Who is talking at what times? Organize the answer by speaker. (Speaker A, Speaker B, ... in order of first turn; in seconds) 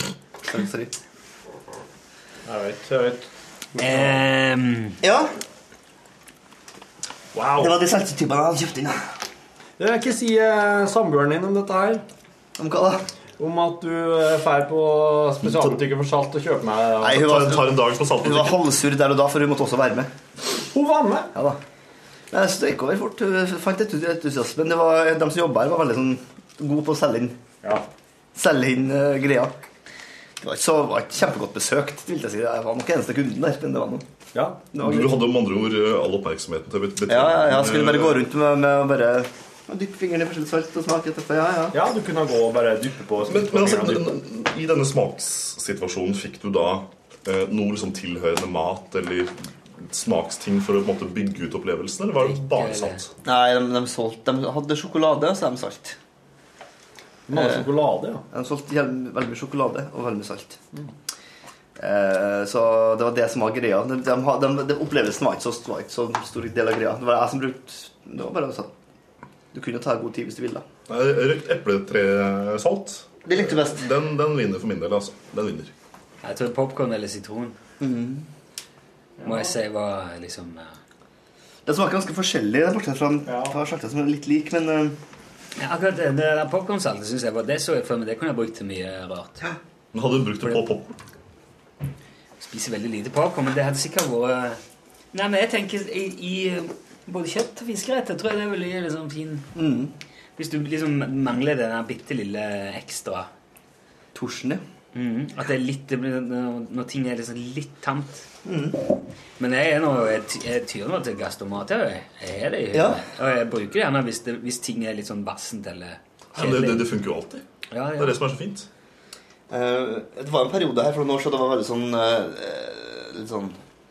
Speaker A: 0.4-0.9, 5.0-5.3, 7.5-9.1, 12.6-13.1, 17.0-20.1, 22.3-27.4, 28.3-29.5, 30.4-34.0, 34.7-35.2, 37.1-41.8, 53.2-56.0, 57.3-57.7, 58.3-60.6, 61.8-68.7, 69.5-70.6, 73.2-73.8, 77.8-78.3, 81.7-85.0, 99.5-99.9, 104.1-104.6, 108.4-108.8, 112.7-113.0, 119.5-123.6
Speaker B: 2.4-4.2, 7.3-7.8, 9.8-12.0, 13.4-17.3, 20.7-21.3, 34.3-34.7, 41.7-44.2, 57.3-58.2, 79.2-79.5, 83.2-83.6
Speaker C: 3.8-5.0, 52.2-53.0, 76.2-77.6, 79.2-80.7, 85.6-89.4, 92.4-94.6, 95.1-99.5, 100.4-103.3, 104.9-108.2, 109.4-116.8, 117.7-118.2
Speaker D: 17.1-18.6, 34.8-38.3, 43.2-53.1, 70.9-75.7, 89.9-91.0, 116.3-117.4, 117.9-118.7